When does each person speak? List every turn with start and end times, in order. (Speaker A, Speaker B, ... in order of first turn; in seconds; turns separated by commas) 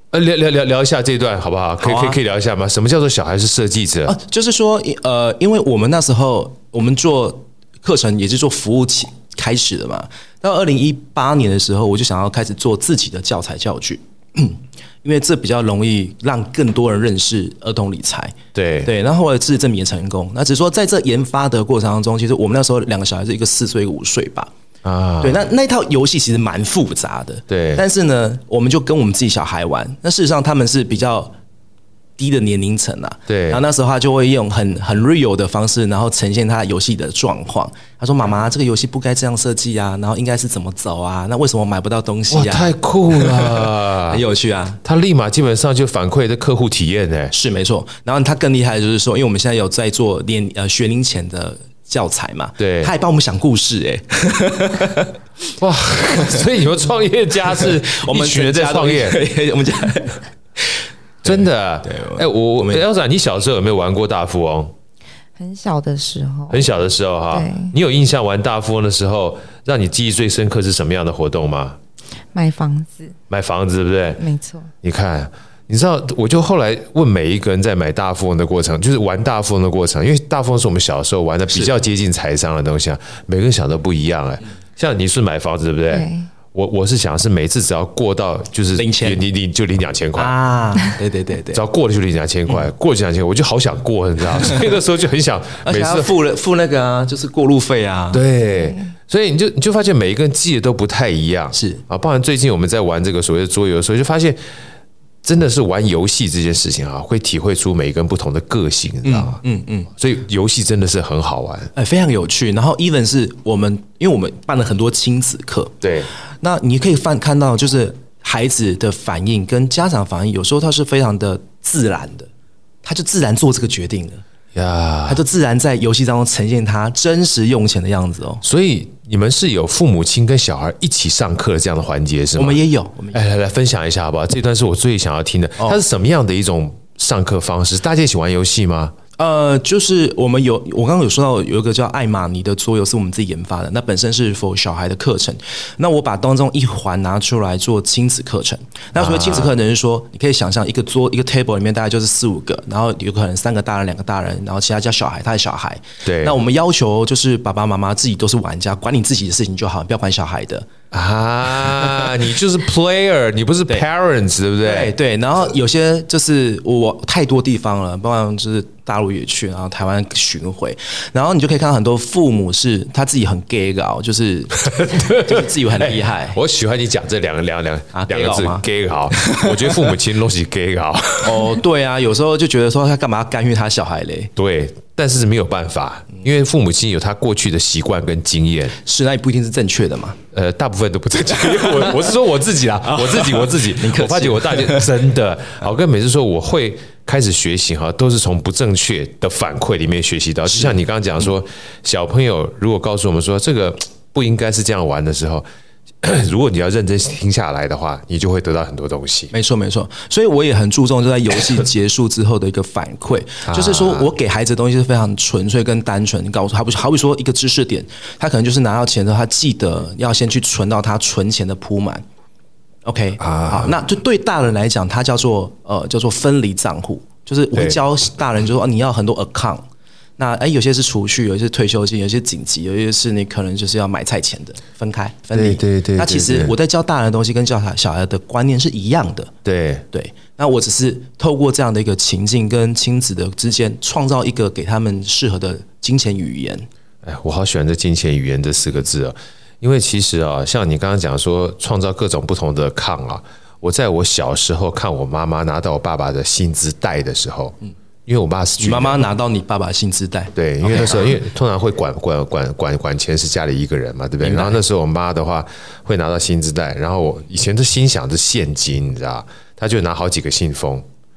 Speaker A: 0.1-4.2, Speaker B: 1.8-2.2, Speaker B: 4.1-24.5, Speaker A: 18.5-18.9, Speaker A: 24.8-25.4, Speaker B: 25.2-31.4, Speaker A: 27.5-27.8, Speaker B: 32.2-44.8, Speaker A: 33.3-33.6, Speaker A: 42.3-44.2, Speaker A: 44.8-47.3, Speaker B: 47.3-55.2, Speaker A: 52.6-52.9, Speaker A: 55.6-59.2, Speaker B: 57.6-62.8, Speaker A: 61.2-64.7, Speaker C: 65.4-66.7, Speaker A: 66.5-71.8, Speaker C: 67.3-67.8, Speaker C: 72.3-73.2, Speaker A: 73.3-74.2, Speaker C: 74.2-74.7, Speaker A: 74.8-90.3, Speaker C: 85.9-86.3, Speaker B: 88.8-89.2, Speaker B: 90.2-91.6, Speaker A: 91.5-96.1, Speaker B: 95.6-98.2, Speaker A: 98.1-104.4, Speaker B: 101.5-101.8, Speaker A: 105.2-109.4, Speaker B: 109.0-109.9, Speaker A: 110.0-111.7, Speaker B: 111.8-115.8, Speaker A: 115.8-116.1, Speaker B: 116.4-122.3, Speaker B: 122.8-124.2, Speaker A: 124.5-125.2, Speaker B: 125.1-128.4, Speaker A: 128.4-132.6, Speaker B: 132.4-133.2, Speaker A: 133.1-138.9, Speaker B: 139.2-160.7, Speaker A: 149.0-149.5, Speaker A: 156.1-156.4, Speaker A: 160.9-164.9, Speaker B: 164.6-176.4, Speaker A: 174.6-181.6, Speaker B: 177.9-179.8, Speaker B: 181.2-184.3, Speaker A: 184.4-188.8, Speaker B: 188.8-190.2, Speaker A: 190.3-205.4, Speaker B: 191.6-191.9, Speaker B: 192.9-194.9, Speaker B: 200.5-200.8, Speaker A: 206.0-209.3, Speaker B: 209.3-222.0, Speaker A: 213.5-214.1, Speaker B: 222.8-229.7, Speaker A: 223.2-223.7, Speaker B: 230.2-239.3, Speaker A: 235.3-236.5, Speaker A: 239.4-239.8, Speaker B: 239.9-246.7, Speaker A: 247.0-259.1, Speaker B: 258.6-261.2, Speaker A: 260.4-270.9, Speaker B: 264.2-264.6